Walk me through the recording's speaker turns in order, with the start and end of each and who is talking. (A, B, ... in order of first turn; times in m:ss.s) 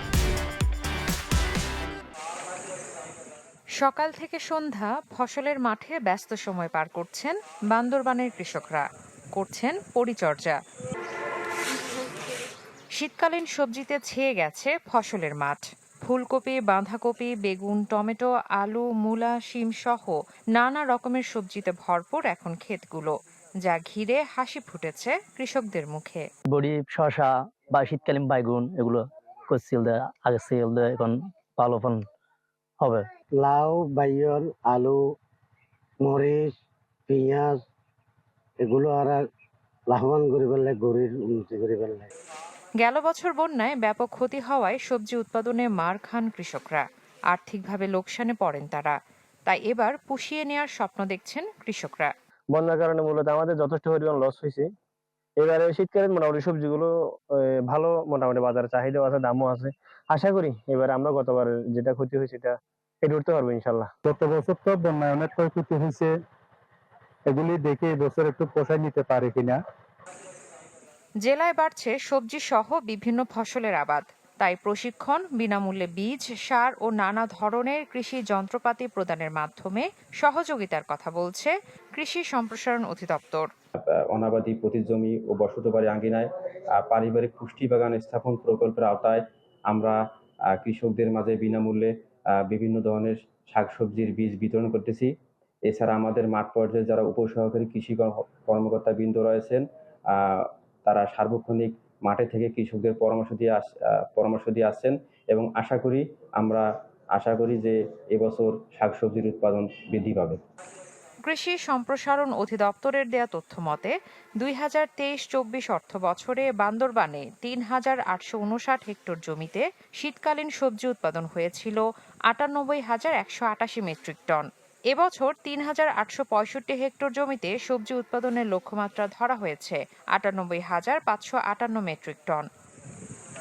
0:03.8-0:10.6 A
0:13.0-0:23.1 A
0:23.6-0:26.3 A
0:26.5-0:32.1 B
0:32.8-0:33.1 B
0:33.4-0:35.1 C
0:36.0-0:37.6 C
0:38.6-0:39.3 C
0:39.9-0:42.1 C
0:42.8-0:52.1 A
0:52.5-0:54.7 D
0:55.4-1:03.9 D
1:04.1-1:06.2 E
1:07.3-1:09.6 E
1:11.2-1:23.5 A
1:23.8-1:35.1 F
1:35.7-1:50.4 F
1:51.3-2:12.5 A